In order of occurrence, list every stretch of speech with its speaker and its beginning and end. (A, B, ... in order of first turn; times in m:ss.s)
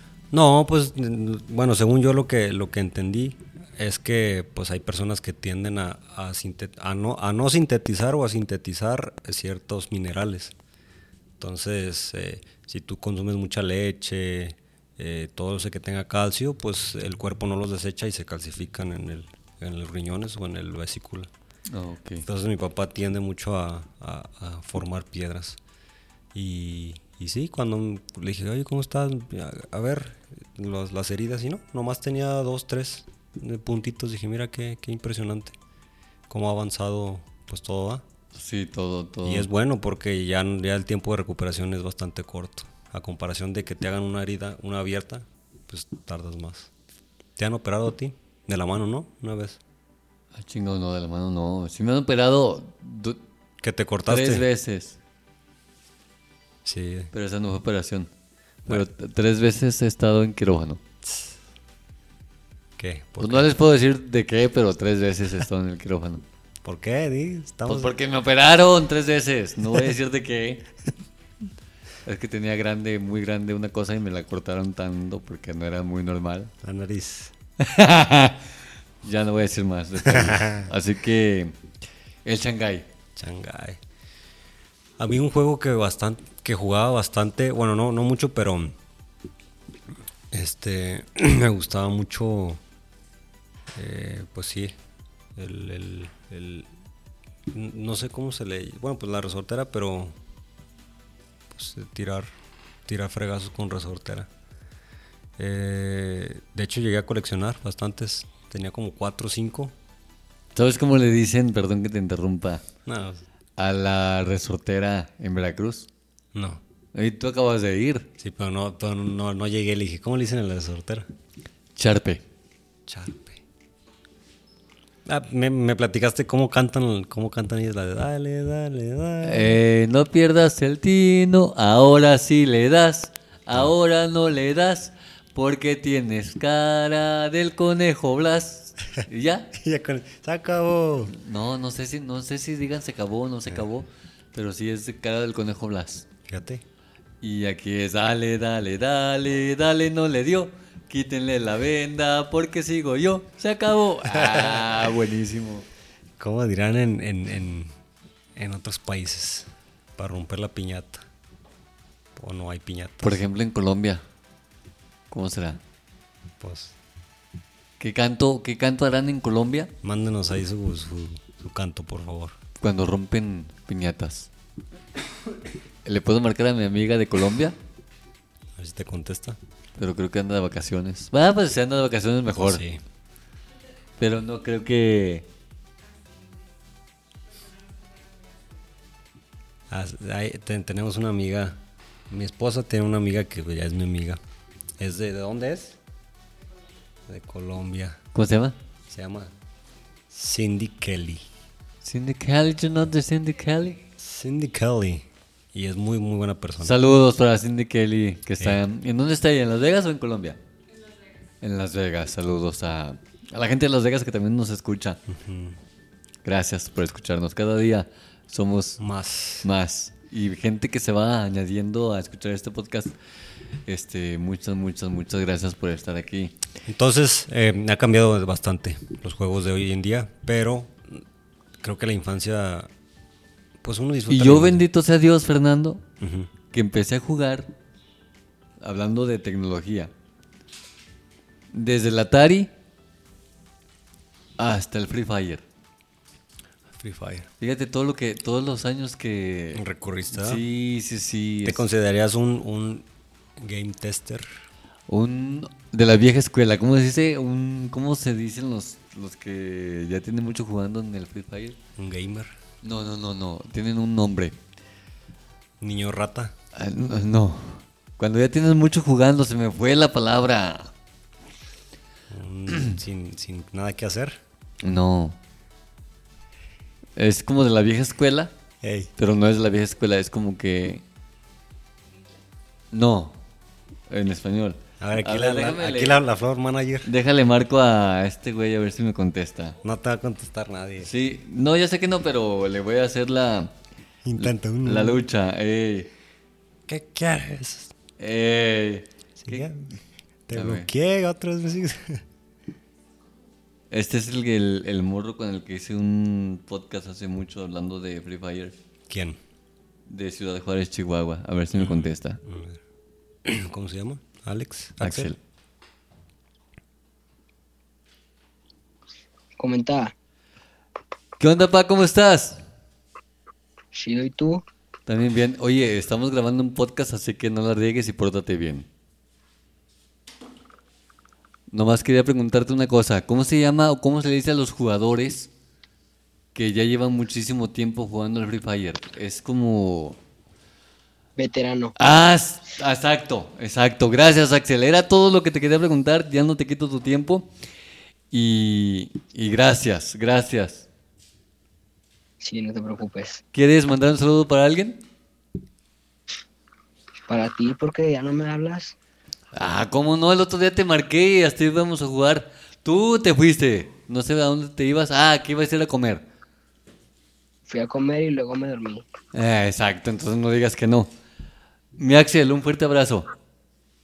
0:00.3-0:10.5 A
0:11.4-0:21.3 A
0:21.7-0:22.2 B
0:22.2-0:25.6 A
0:26.3-0:35.6 A
0:36.3-0:38.0 A
0:38.3-0:39.5 B
0:39.2-0:46.7 A
0:47.4-0:49.6 A
0:50.4-0:53.2 B
0:53.6-0:54.5 A
0:54.1-0:55.0 B
0:56.6-0:57.1 A
0:57.1-0:58.1 B
0:58.6-1:00.8 B
1:01.0-1:01.4 A
1:02.8-1:03.5 A
1:03.2-1:06.2 B
1:06.6-1:07.9 A
1:07.7-1:10.7 B
1:12.0-1:16.5 B
1:16.6-1:17.3 A
1:17.6-1:18.4 B
1:19.0-1:21.6 B
1:20.0-1:20.7 A
1:22.3-1:22.9 B
1:23.2-1:23.8 A
1:25.0-1:28.8 A
1:30.3-1:32.6 A
1:33.7-1:34.7 A
1:35.4-1:36.7 A
1:37.5-1:40.2 A
1:41.5-1:42.3 A
1:42.9-1:44.3 A
1:45.4-1:49.7 A
1:50.6-1:52.6 B
1:52.9-1:53.2 A
1:53.6-1:55.9 B
1:56.3-1:56.6 A
1:56.9-1:58.1 B
1:58.2-2:01.1 A
2:01.8-2:02.2 B
2:02.9-2:03.4 A
2:05.0-2:09.6 A
2:09.2-2:19.5 B
2:19.6-2:21.2 A
2:21.1-2:26.1 B
2:26.3-2:26.6 A
2:27.2-2:35.7 B
2:34.1-2:34.7 A
2:36.2-2:37.7 A
2:38.4-2:41.1 A
2:42.2-2:43.2 A
2:43.0-2:44.0 B
2:45.1-2:45.6 B
2:46.4-2:46.8 A
2:47.8-2:49.7 B
2:49.8-2:52.4 A
2:52.6-2:54.3 B
2:55.8-2:57.6 B
2:58.6-2:59.4 A
2:59.8-3:02.6 B
3:02.4-3:02.8 A
3:04.0-3:05.3 B
3:09.7-3:14.2 A
3:14.8-3:15.8 A
3:17.1-3:18.0 A
3:18.2-3:18.6 B
3:18.9-3:19.3 A
3:20.1-3:21.2 A
3:21.8-3:23.8 B
3:24.0-3:26.8 A
3:26.6-3:30.4 B
3:31.4-3:35.0 B
3:35.1-3:35.6 A
3:36.2-3:38.8 B
3:38.8-3:39.5 A
3:39.4-3:42.9 B
3:43.7-3:46.4 B
3:46.7-3:51.0 A
3:51.6-3:52.7 A
3:53.6-3:54.6 A
3:54.1-3:55.8 B
3:56.0-3:56.3 A
3:56.5-3:57.5 B
3:58.6-3:59.9 B
4:01.5-4:02.5 B
4:04.4-4:05.4 B
4:06.8-4:07.3 A
4:07.4-4:11.6 B
4:09.5-4:10.4 A
4:11.4-4:14.3 A
4:14.9-4:21.6 B
4:21.8-4:22.4 A
4:22.6-4:24.4 B
4:25.6-4:26.3 A
4:26.6-4:30.7 B
4:32.1-4:34.2 A
4:32.5-4:32.8 B
4:34.6-4:35.2 B
4:37.0-4:38.3 B
4:38.6-4:38.9 A
4:39.0-4:40.8 B
4:42.7-4:43.2 B
4:43.9-4:46.0 B
4:44.8-4:46.9 A
4:46.9-4:49.6 B
4:49.6-4:50.9 A
4:50.8-4:53.5 B
4:54.0-4:55.0 A
4:54.2-4:55.9 B
4:56.7-4:57.7 A
4:58.0-4:59.5 B
4:59.2-4:59.8 A
5:00.3-5:02.0 A
5:00.3-5:00.7 B
5:03.7-5:08.6 B
5:08.9-5:09.2 A
5:09.9-5:12.2 B
5:11.6-5:12.6 A
5:13.2-5:15.1 A
5:14.8-5:15.2 B
5:19.4-5:19.9 C
5:21.2-5:22.4 B
5:23.7-5:24.4 C
5:24.9-5:28.7 B
5:31.5-5:35.3 B
5:36.4-5:40.0 B
5:41.2-5:41.7 C
5:41.8-5:47.3 B
5:48.1-5:50.7 B
5:52.2-5:53.2 C
5:53.3-5:54.8 B
5:57.1-5:58.8 C
5:59.3-6:06.0 B
6:07.5-6:08.8 C
6:09.1-6:10.9 B
6:11.8-6:13.1 B